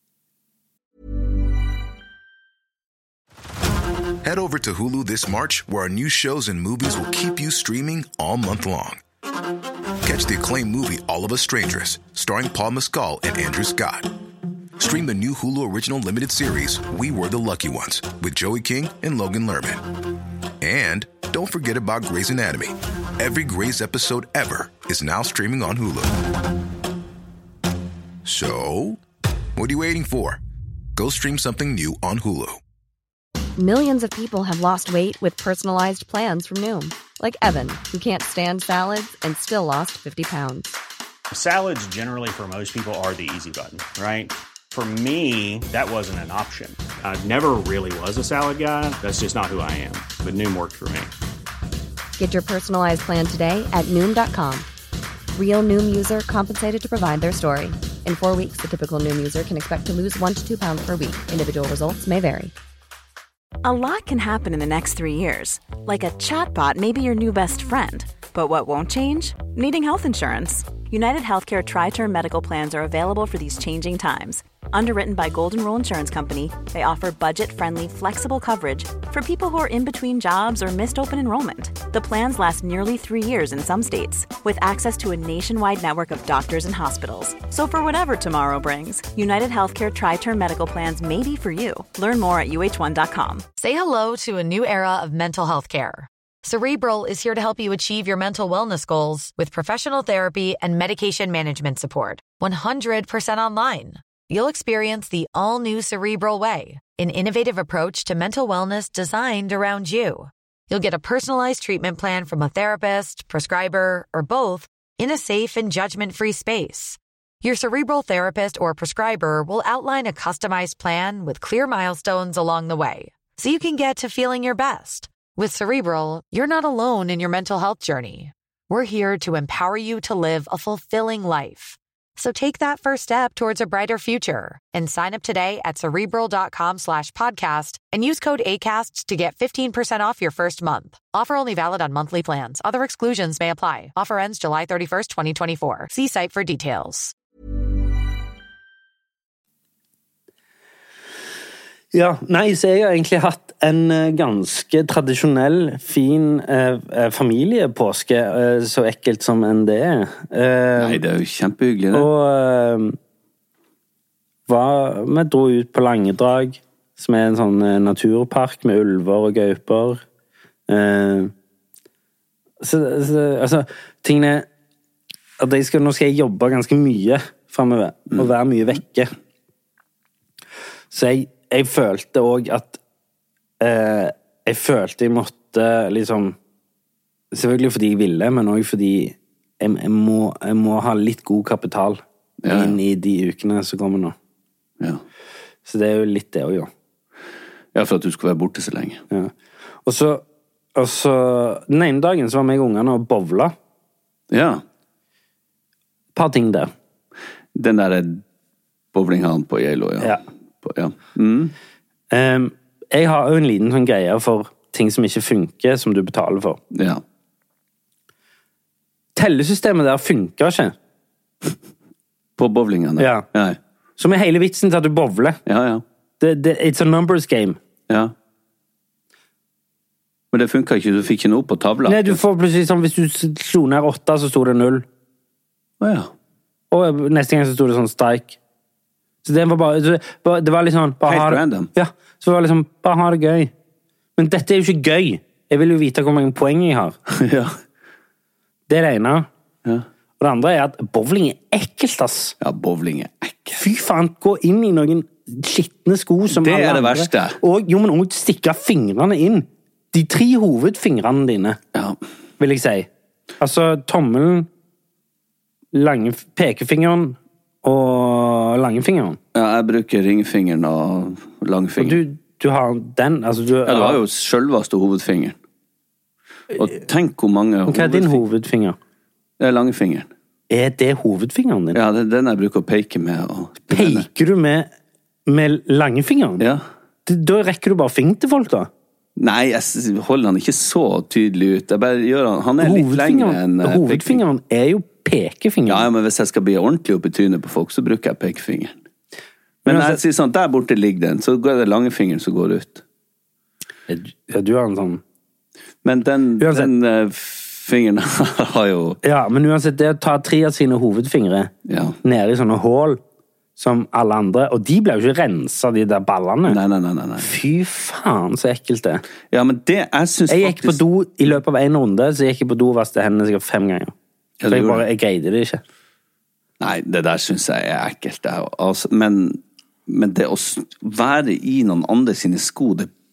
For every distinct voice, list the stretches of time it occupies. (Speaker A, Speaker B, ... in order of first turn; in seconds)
Speaker A: 4.2-9.0, 10.0-14.1, 14.8-19.9, 20.6-26.2, 28.2-29.0, 29.6-30.4, 31.0-32.6
Speaker B: 33.6-40.8, 52.2-54.7, 55.4-62.5
Speaker C: 41.5-51.1
Speaker D: 63.6-93.5
Speaker E: 93.6-147.1
Speaker F: 151.9-161.0, 161.9-163.0, 164.5-170.0, 170.7-171.3, 172.6-174.5, 175.4-179.1, 180.9-182.8, 183.6-186.4, 187.3-194.2, 195.7-196.7, 199.8-200.2, 200.8-203.5, 206.2-206.7, 212.1-216.6, 219.2-220.8, 223.0-223.3, 224.0-225.4, 226.2-227.6, 231.9-234.8, 236.7-238.4, 239.2-243.5, 244.2-247.0, 248.7-249.3, 250.2-252.3, 253.6-261.6, 262.4-262.9, 263.4-264.5, 265.7-269.2, 271.8-274.0, 277.7-278.8, 280.5-281.8, 283.7-284.7, 285.3-286.5, 287.1-288.7, 292.6-295.9, 299.7-300.0, 303.9-305.0, 306.4-306.7, 309.0-311.5, 312.0-313.0, 313.6-316.6, 317.2-319.0, 320.3-323.9, 324.5-325.6
Speaker G: 160.8-162.1, 192.4-192.8, 197.7-199.0, 204.3-204.6, 207.6-208.2, 208.9-211.5, 216.7-217.0, 222.4-223.6, 225.5-225.8, 230.3-232.2, 235.8-236.1, 241.0-241.7, 247.1-247.6, 252.4-253.6, 256.3-257.4, 269.3-272.0, 273.6-275.4, 276.5-278.2, 279.4-280.1, 281.7-284.1, 289.2-294.2, 295.7-298.8, 299.6-302.8, 305.8-309.0, 311.7-312.0, 316.5-317.3, 319.3-320.8, 324.4-324.9, 326.6-332.9